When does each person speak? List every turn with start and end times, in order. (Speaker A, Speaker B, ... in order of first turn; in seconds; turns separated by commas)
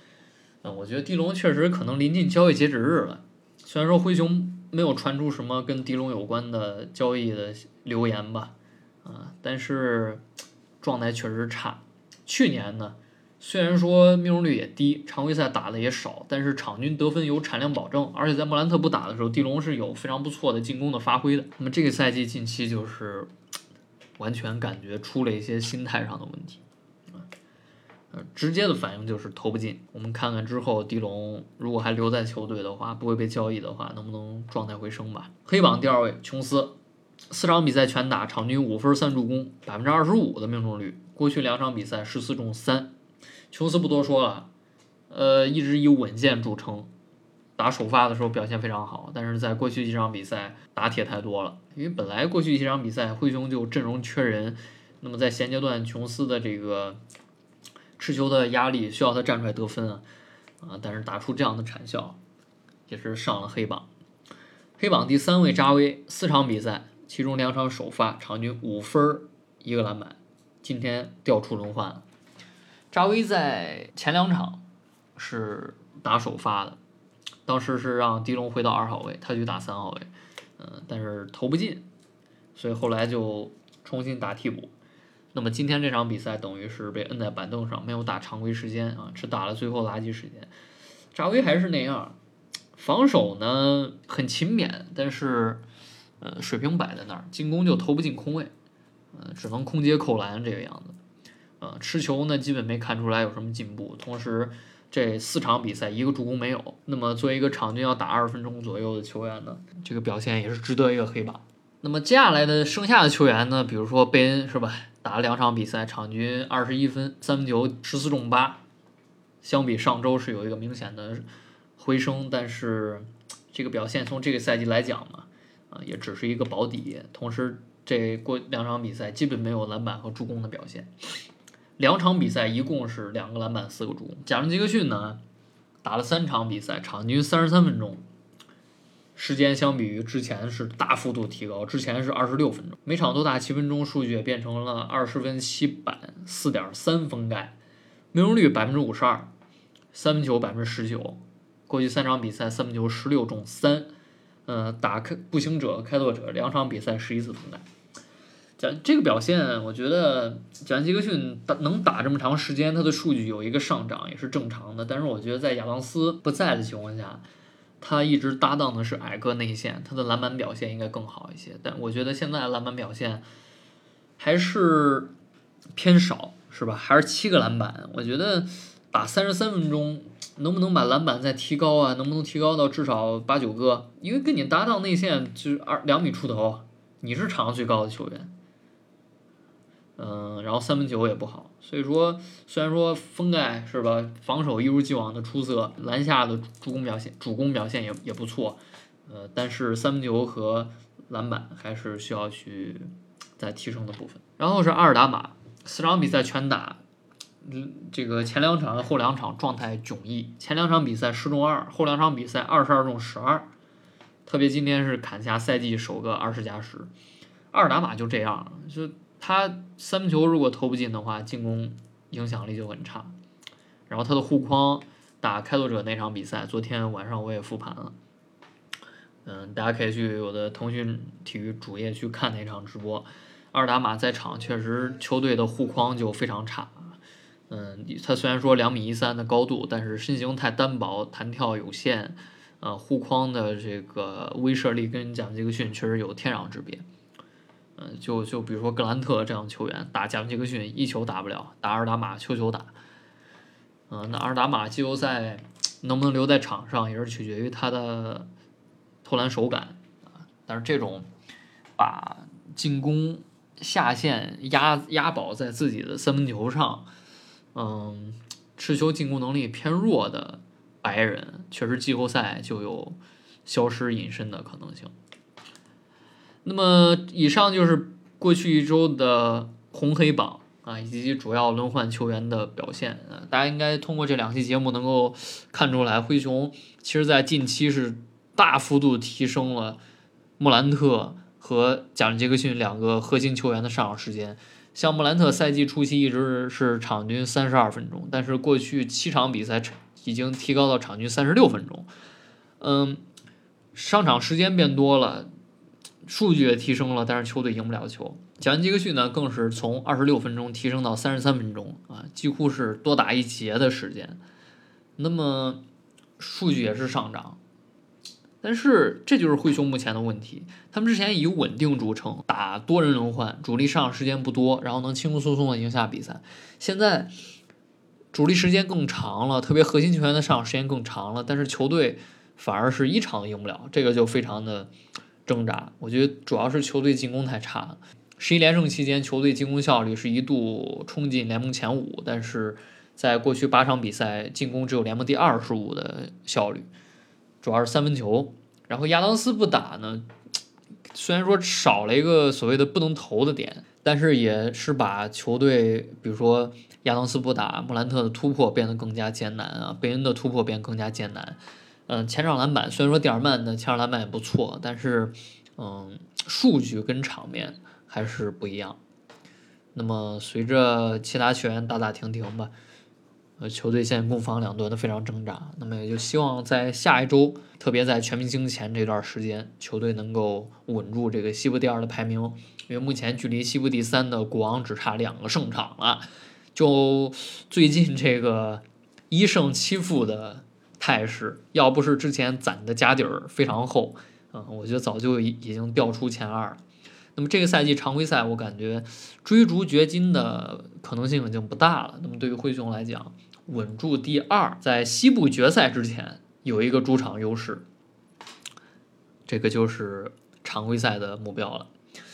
Speaker A: 0.6-10.2, Speaker A: 10.8-23.3, Speaker A: 24.2-27.2, Speaker A: 28.1-36.8, Speaker A: 37.3-42.9, Speaker A: 43.5-44.5, Speaker A: 45.1-46.9, Speaker A: 47.6-57.0, Speaker A: 58.0-60.0, Speaker A: 60.6-62.2, Speaker A: 62.9-63.9, Speaker A: 64.8-72.0, Speaker A: 72.9-74.6, Speaker A: 75.2-76.8, Speaker A: 77.5-81.8, Speaker A: 82.5-84.7, Speaker A: 85.3-90.5, Speaker A: 91.1-92.2, Speaker A: 92.7-95.6, Speaker A: 96.2-98.5, Speaker A: 99.1-101.0, Speaker A: 101.6-118.6, Speaker A: 119.4-121.2, Speaker A: 121.8-130.9, Speaker A: 131.8-135.2, Speaker A: 135.8-138.0, Speaker A: 139.1-147.6, Speaker A: 148.1-149.3, Speaker A: 149.9-153.9, Speaker A: 154.4-157.6, Speaker A: 158.6-167.2, Speaker A: 167.8-173.2, Speaker A: 174.2-175.1, Speaker A: 175.7-188.3, Speaker A: 190.0-206.8, Speaker A: 207.4-213.5, Speaker A: 214.2-216.9, Speaker A: 217.5-223.2, Speaker A: 223.9-227.9, Speaker A: 229.2-237.0, Speaker A: 237.5-246.8, Speaker A: 247.8-252.7, Speaker A: 253.9-258.3, Speaker A: 259.0-261.1, Speaker A: 261.8-266.9, Speaker A: 267.5-274.9, Speaker A: 276.4-289.8, Speaker A: 290.4-301.9, Speaker A: 302.6-303.0, Speaker A: 303.7-305.3, Speaker A: 306.0-314.2, Speaker A: 315.0-315.6, Speaker A: 316.2-317.4, Speaker A: 318.4-327.1, Speaker A: 328.1-334.7, Speaker A: 335.2-346.7, Speaker A: 347.4-350.1, Speaker A: 350.9-368.8, Speaker A: 369.7-372.5, Speaker A: 373.4-396.6, Speaker A: 397.1-407.6, Speaker A: 409.3-411.7